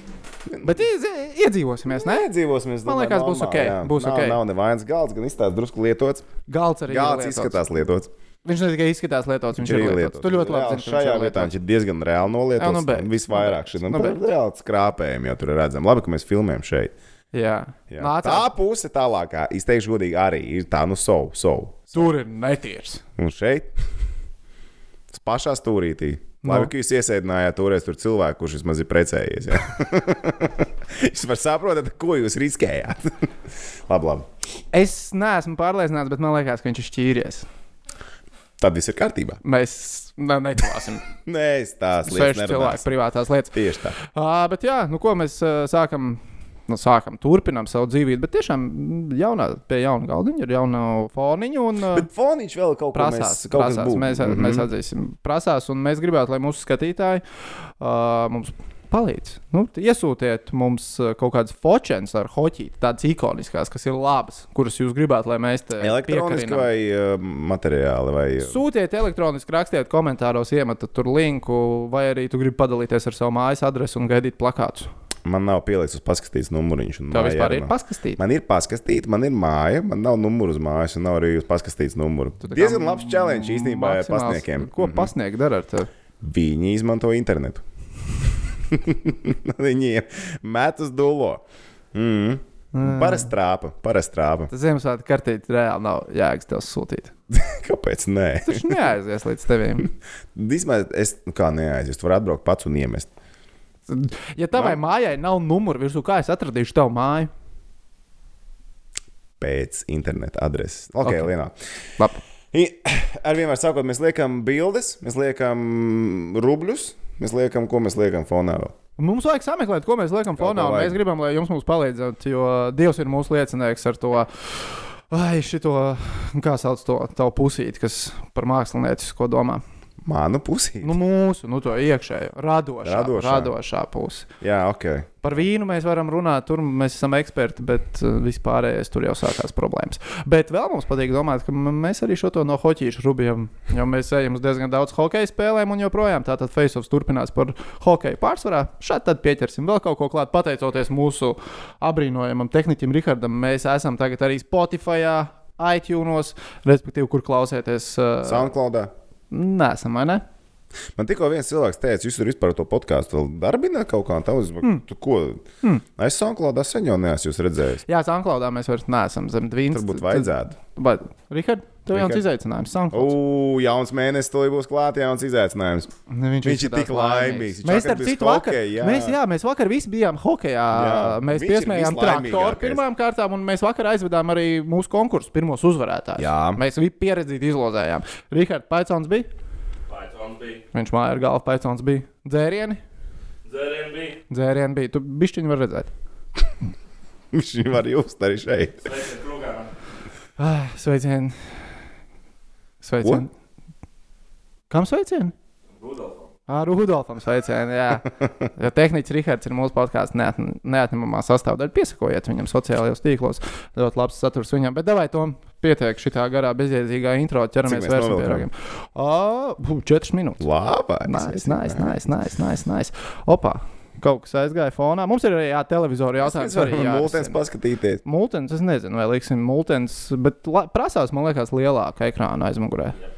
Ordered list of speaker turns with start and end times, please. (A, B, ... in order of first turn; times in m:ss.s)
0:00.5-0:00.8 A
0:00.6-0:02.3 B
0:01.9-0:06.3 A
0:02.8-0:04.4 B
0:06.5-0:07.6 B
0:06.9-0:08.1 A
0:08.4-0:11.5 B
0:09.6-0:16.9 A
0:12.6-0:14.2 B
0:17.3-0:18.5 B
0:17.9-0:22.1 A
0:21.9-0:23.0 B
0:23.2-0:23.7 A
0:25.1-0:33.3 A
0:26.4-0:26.7 B
0:33.9-0:34.3 A
0:34.7-0:37.5 B
0:38.6-0:39.4 A
0:39.4-0:41.1 B
0:41.2-0:42.9 A
0:42.0-0:52.1 B
0:43.5-0:44.0 A
0:51.9-0:54.7 A
0:52.9-0:57.2 B
0:57.8-1:06.7 B
1:05.8-1:08.6 A
1:08.4-1:14.9 B
1:15.3-1:25.1 A
1:17.1-1:18.2 B
1:22.4-1:25.9 B
1:26.2-1:27.6 A
1:28.7-1:34.5 A
1:32.7-1:33.3 B
1:34.5-1:37.1 B
1:37.3-1:38.9 A
1:38.4-1:39.9 B
1:40.4-1:43.1 A
1:43.9-1:47.3 B
1:44.5-1:44.8 A
1:49.4-1:51.6 A
1:51.0-1:51.3 B
1:52.5-1:58.8 A
1:59.0-2:09.6 B
2:00.4-2:01.0 A
2:10.0-2:11.0 A
2:10.8-2:14.3 B
2:12.8-2:13.5 A
2:14.4-2:15.3 A
2:15.2-2:38.5 B
2:38.2-2:38.9 A
2:39.3-2:40.2 B
2:41.0-2:45.4 A
2:46.0-2:47.8 A
2:47.9-2:53.2 B
2:49.7-2:50.6 A
2:51.9-2:52.2 A
2:52.9-2:55.9 A
2:56.1-3:09.3 B
2:56.4-2:59.2 A
3:00.7-3:02.8 A
3:06.2-3:06.6 A
3:09.9-3:10.6 C
3:10.7-3:12.8 B
3:13.4-3:14.2 C
3:14.3-3:15.9 B
3:17.3-3:18.9 A
3:18.8-3:19.7 C
3:20.4-3:21.6 B
3:22.8-3:23.3 B
3:24.7-3:25.3 B
3:25.8-3:26.3 C
3:26.5-3:40.4 B
3:37.7-3:38.5 A
3:40.4-3:41.9 A
3:41.1-3:47.4 B
3:46.2-3:48.0 A
3:48.0-3:53.0 B